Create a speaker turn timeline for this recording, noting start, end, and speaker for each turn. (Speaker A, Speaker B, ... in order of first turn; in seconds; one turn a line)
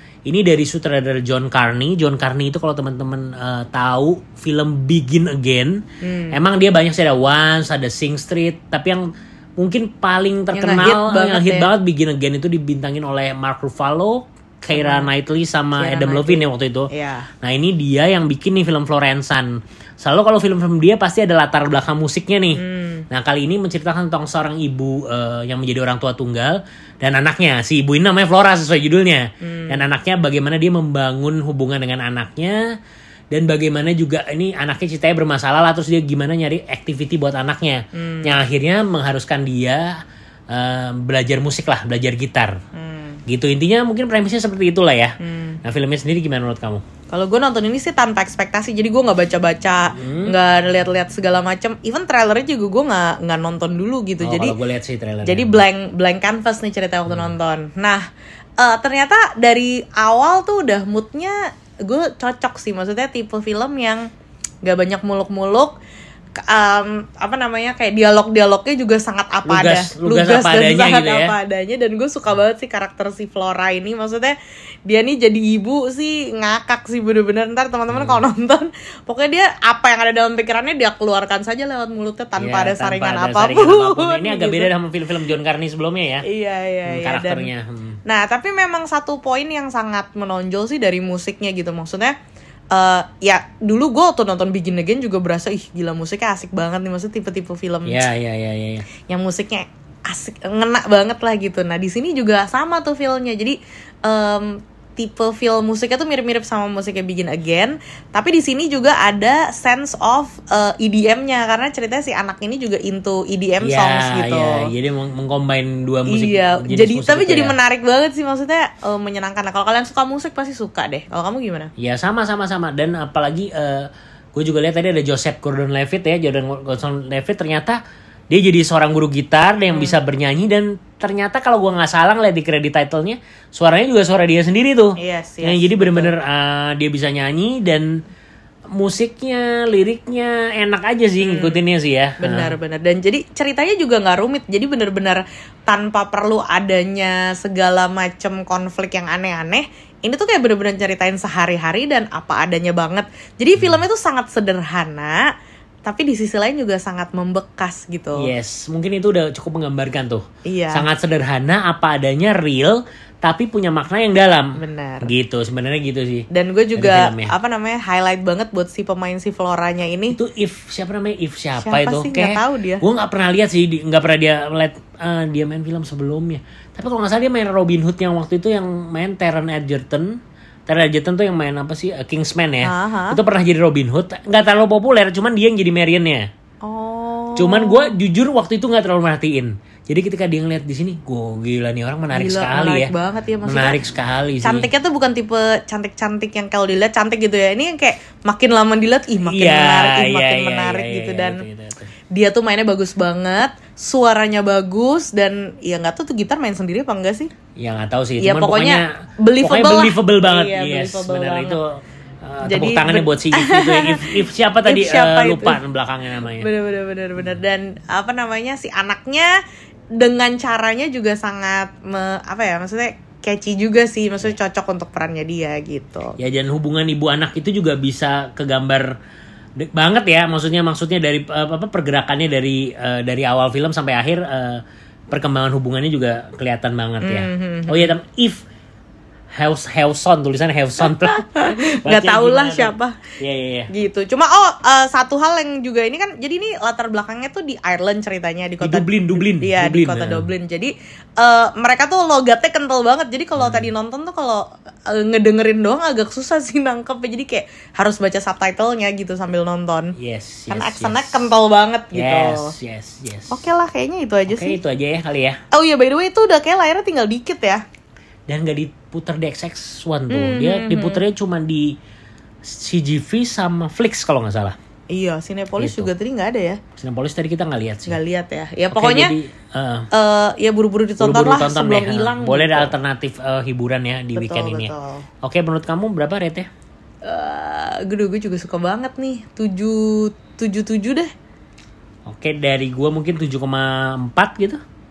Speaker A: 0.2-9.0
Speaker B: 6.0-6.4
Speaker A: 9.6-16.9
Speaker B: 10.5-11.7
Speaker B: 14.7-15.1
Speaker B: 15.7-17.3
Speaker A: 17.4-32.6
Speaker B: 22.6-23.0
Speaker B: 29.4-29.8
Speaker A: 33.3-39.9
Speaker B: 37.9-38.4
Speaker A: 40.5-42.6
Speaker B: 42.7-43.2
Speaker A: 43.3-46.8
Speaker B: 45.2-45.6
Speaker B: 47.1-54.6
Speaker A: 49.9-50.4
Speaker A: 54.2-55.6
Speaker B: 55.2-58.0
Speaker A: 57.1-57.3
Speaker B: 58.6-64.1
Speaker B: 64.6-65.7
Speaker B: 66.4-74.3
Speaker A: 69.5-71.3
Speaker B: 74.9-84.7
Speaker A: 77.9-78.2
Speaker A: 82.4-86.2
Speaker B: 86.2-87.5
Speaker A: 86.8-88.0
Speaker B: 88.0-92.1
Speaker B: 92.7-98.0
Speaker A: 97.8-98.8
Speaker B: 99.0-114.7
Speaker A: 113.6-117.6
Speaker B: 116.1-121.7
Speaker A: 121.8-127.8
Speaker A: 128.3-137.9
Speaker B: 129.7-130.0
Speaker B: 135.0-136.1
Speaker A: 138.7-142.6
Speaker B: 141.2-141.6
Speaker B: 142.2-155.2
Speaker A: 153.6-153.8
Speaker B: 155.8-158.3
Speaker A: 158.2-167.3
Speaker B: 160.4-160.9
Speaker B: 164.6-165.1
Speaker B: 166.3-170.2
Speaker A: 170.1-186.3
Speaker B: 171.6-172.8
Speaker B: 182.6-183.2
Speaker B: 186.6-187.9
Speaker A: 187.3-192.9
Speaker B: 192.1-193.8
Speaker A: 193.4-194.7
Speaker B: 194.4-201.4
Speaker A: 199.2-201.9
Speaker B: 202.1-207.3
Speaker A: 207.6-208.8
Speaker B: 208.2-211.6
Speaker A: 209.4-211.7
Speaker A: 212.2-216.5
Speaker B: 212.4-215.6
Speaker B: 216.4-219.3
Speaker B: 220.0-226.2
Speaker A: 226.2-228.9
Speaker A: 229.6-238.4
Speaker B: 237.0-237.9
Speaker A: 239.3-243.7
Speaker B: 240.8-243.0
Speaker B: 243.7-259.9
Speaker A: 248.6-250.3
Speaker A: 253.4-253.7
Speaker A: 260.0-261.2
Speaker B: 260.5-262.5
Speaker A: 261.9-263.4
Speaker B: 263.3-264.6
Speaker A: 264.3-265.4
Speaker B: 265.5-267.6
Speaker A: 268.3-271.8
Speaker B: 270.1-271.0
Speaker A: 272.4-274.6
Speaker B: 274.9-276.6
Speaker A: 275.6-275.9
Speaker A: 276.8-278.0
Speaker B: 277.9-279.1
Speaker A: 278.7-279.9
Speaker B: 279.9-282.8
Speaker A: 281.0-284.7
Speaker B: 284.1-285.1
Speaker A: 285.2-286.5
Speaker B: 287.0-291.1
Speaker A: 292.1-294.6